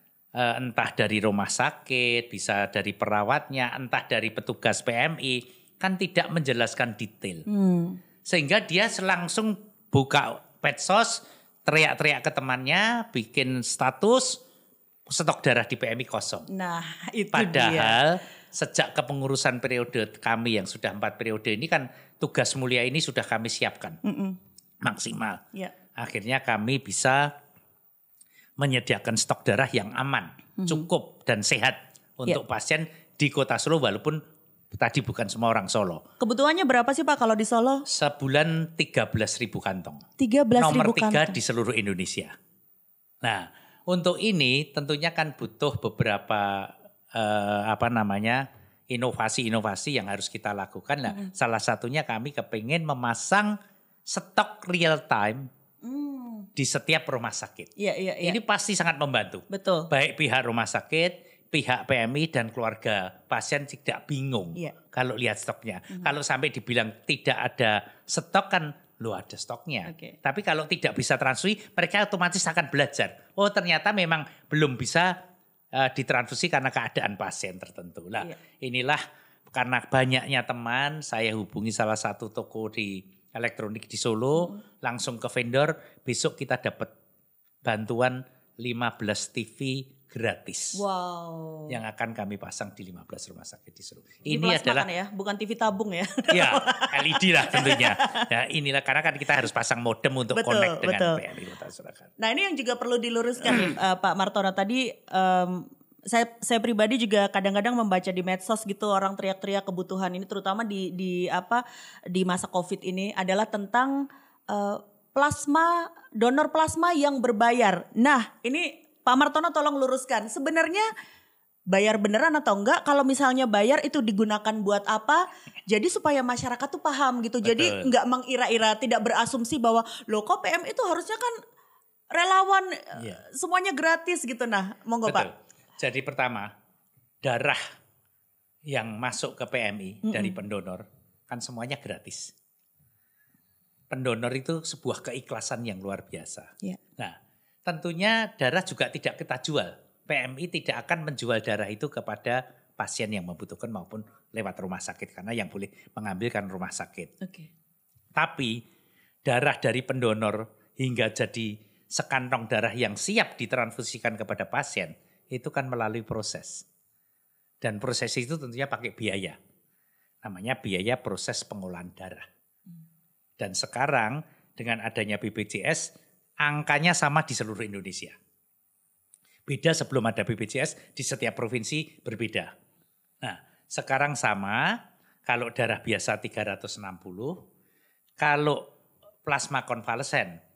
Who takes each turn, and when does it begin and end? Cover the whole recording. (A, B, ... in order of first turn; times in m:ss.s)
0:00.4-0:07.5 A
0:07.5-0:08.0 B
0:08.2-0:14.4 A
0:15.1-0:16.5 A
0:16.5-0:18.0 B
0:17.3-0:24.0 A
0:24.0-0:24.4 B
0:24.8-0:25.4 A
0:26.0-0:27.3 A
0:28.6-0:34.2 A
0:34.7-0:36.0 A
0:36.2-0:37.8 B
0:37.9-0:40.0 A
0:40.2-0:41.4 B
0:40.6-0:42.3 A
0:43.2-0:53.6 A
0:54.1-0:55.5 A
0:55.8-0:56.5 B
0:56.6-0:57.7 A
0:57.8-0:58.4 B
0:58.2-1:15.1 A
0:59.5-0:59.9 B
1:09.9-1:10.2 B
1:15.7-1:26.9 A
1:27.6-1:30.8 A
1:30.7-1:31.8 B
1:31.7-1:34.9 A
1:34.3-1:38.3 B
1:36.3-1:42.1 A
1:40.3-1:41.2 B
1:42.2-2:00.9 B
2:01.7-2:11.4 B
2:07.4-2:07.9 A
2:12.1-2:15.3 B
2:13.0-2:13.2 A
2:15.0-2:16.5 A
2:17.2-2:17.6 A
2:18.7-2:22.3 A
2:20.0-2:20.4 B
2:23.9-2:37.1 A
2:37.2-2:37.5 B
2:38.2-2:38.6 A
2:39.2-2:46.6 A
2:47.6-2:49.4 A
2:50.2-2:52.3 A
2:53.4-2:55.9 A
2:56.4-2:58.2 A
2:59.5-3:02.5 A
3:03.2-3:04.7 A
3:05.3-3:07.4 A
3:08.2-3:08.6 A
3:09.3-3:10.4 A